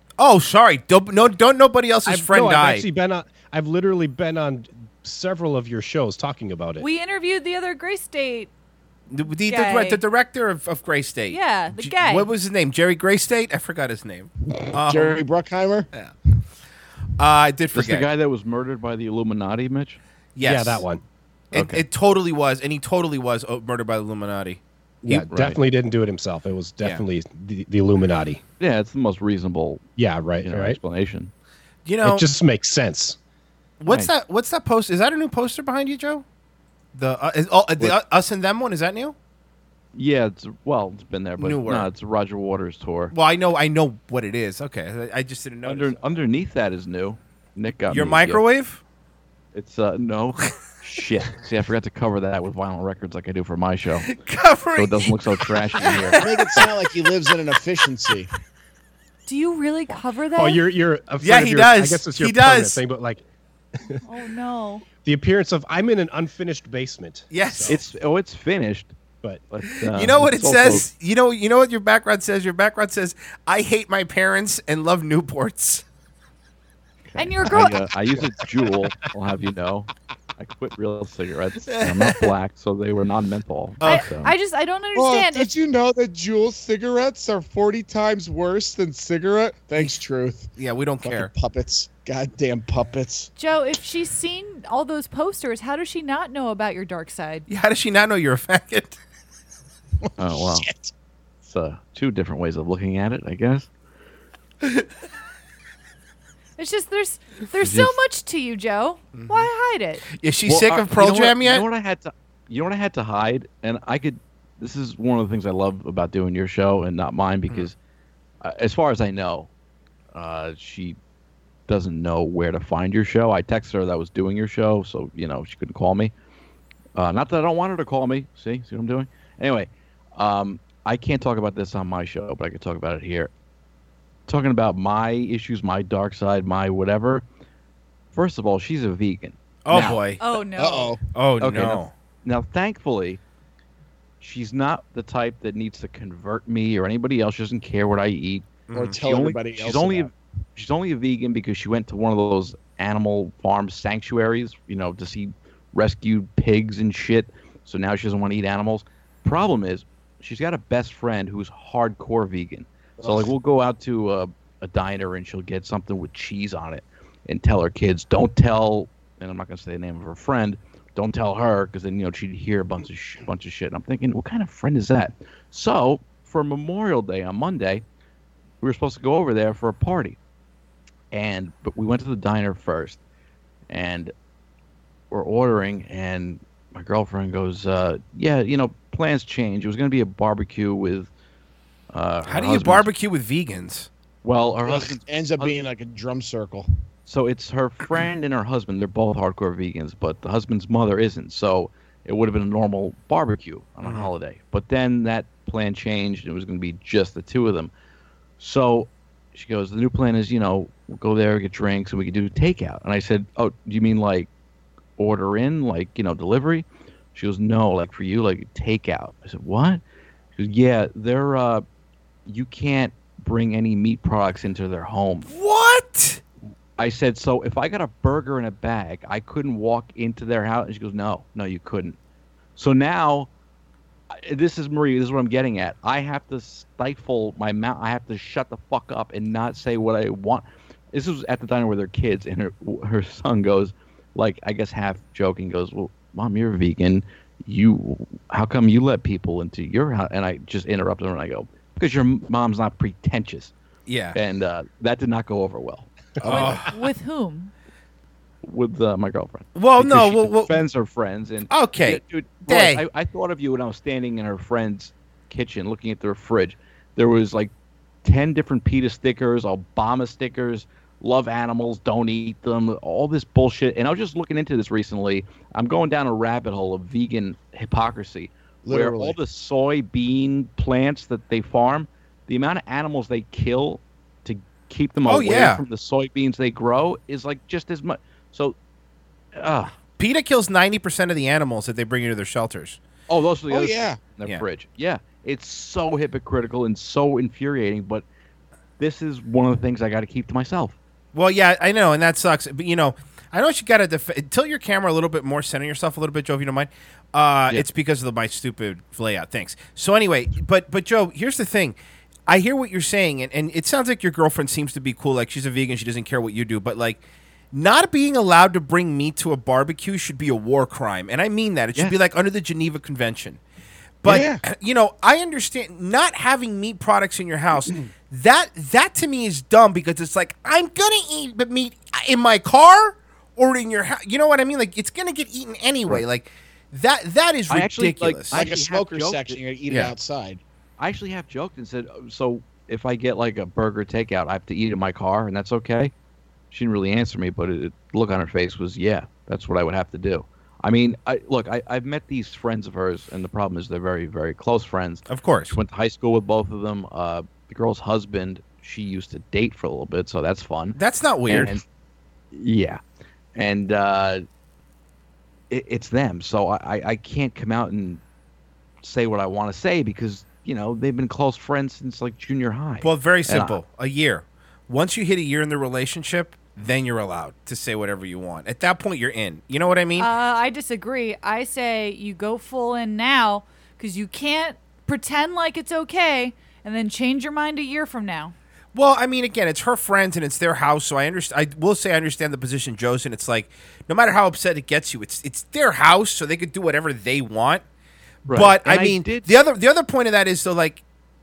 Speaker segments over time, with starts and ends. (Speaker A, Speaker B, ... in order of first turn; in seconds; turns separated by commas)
Speaker A: 0.2-2.9, Speaker B: 2.0-6.9, Speaker C: 6.8-8.5, Speaker A: 9.1-15.2, Speaker C: 9.4-10.0, Speaker C: 11.3-12.3, Speaker D: 14.7-15.9, Speaker A: 17.2-18.1, Speaker E: 17.7-20.0, Speaker A: 20.4-20.8, Speaker B: 20.4-21.0, Speaker E: 21.5-21.8, Speaker A: 21.5-24.6, Speaker B: 25.0-28.4, Speaker E: 25.1-25.6, Speaker E: 28.6-29.8, Speaker B: 30.0-30.8, Speaker E: 30.4-31.3, Speaker A: 31.9-32.2, Speaker B: 32.0-33.2, Speaker A: 33.8-36.2, Speaker A: 36.9-39.1, Speaker E: 39.9-43.1, Speaker A: 41.4-41.9, Speaker A: 43.1-46.0, Speaker E: 45.6-48.4, Speaker A: 47.9-48.8, Speaker E: 49.5-54.1, Speaker A: 54.1-55.1, Speaker E: 54.8-56.2, Speaker A: 55.8-57.1, Speaker D: 56.2-58.3, Speaker C: 59.2-60.6, Speaker B: 60.4-63.2, Speaker A: 61.2-62.8, Speaker C: 64.0-64.8, Speaker B: 65.0-67.7, Speaker A: 67.3-67.8, Speaker E: 67.7-68.9, Speaker E: 69.5-70.8, Speaker A: 69.9-75.8, Speaker E: 77.1-84.3, Speaker C: 77.2-77.8, Speaker A: 81.7-82.3, Speaker A: 83.8-84.1, Speaker C: 83.8-85.5, Speaker D: 84.9-93.3, Speaker A: 90.5-91.3, Speaker C: 93.3-97.5, Speaker A: 97.5-99.0, Speaker D: 100.0-100.9, Speaker E: 100.2-100.7, Speaker E: 101.4-103.7, Speaker C: 106.6-110.0, Speaker E: 107.6-107.9, Speaker A: 109.1-109.5, Speaker A: 110.1-111.6, Speaker E: 110.5-117.7, Speaker E: 118.4-119.5, Speaker E: 120.1-121.0, Speaker E: 121.7-126.1, Speaker E: 127.0-133.3, Speaker E: 134.3-137.2, Speaker E: 138.1-140.0, Speaker A: 139.6-140.2, Speaker C: 139.7-141.0, Speaker D: 140.6-141.0, Speaker A: 141.1-141.9, Speaker E: 141.4-143.2, Speaker E: 144.2-177.8, Speaker A: 148.7-148.9, Speaker D: 148.7-150.1, Speaker D: 163.0-163.3, Speaker E: 178.6-180.2, Speaker E: 181.1-183.0, Speaker E: 183.7-184.1, Speaker E: 185.1-191.1, Speaker E: 191.9-192.9, Speaker A: 192.2-193.9, Speaker E: 194.2-195.6, Speaker D: 194.6-196.7, Speaker E: 197.1-207.7, Speaker A: 203.8-204.1, Speaker E: 208.4-214.3, Speaker E: 215.0-219.8, Speaker E: 220.3-221.6, Speaker E: 222.3-225.3, Speaker A: 225.3-226.2, Speaker E: 226.8-232.0, Speaker E: 232.6-233.3, Speaker E: 234.1-253.5, Speaker A: 253.9-254.2, Speaker E: 254.1-255.9, Speaker A: 256.2-256.7, Speaker C: 256.2-257.5, Speaker E: 258.4-267.5, Speaker A: 259.5-260.6, Speaker A: 261.5-262.8, Speaker E: 268.0-288.6, Speaker D: 278.6-279.1, Speaker A: 285.0-285.6, Speaker E: 289.4-289.7, Speaker A: 290.0-292.8, Speaker E: 293.1-298.0, Speaker D: 293.5-294.0, Speaker E: 298.8-300.8, Speaker A: 301.1-323.4, Speaker A: 324.0-338.4, Speaker D: 324.0-324.4, Speaker E: 337.5-339.4, Speaker D: 338.3-340.4, Speaker E: 340.8-345.9, Speaker E: 346.5-361.6, Speaker A: 355.1-355.6, Speaker A: 360.8-361.6, Speaker E: 362.3-362.8, Speaker E: 363.4-364.2, Speaker E: 365.5-368.0, Speaker E: 368.8-373.6, Speaker A: 372.8-380.1, Speaker C: 380.0-388.3, Speaker A: 388.7-397.6, Speaker E: 398.3-399.3, Speaker A: 398.3-400.8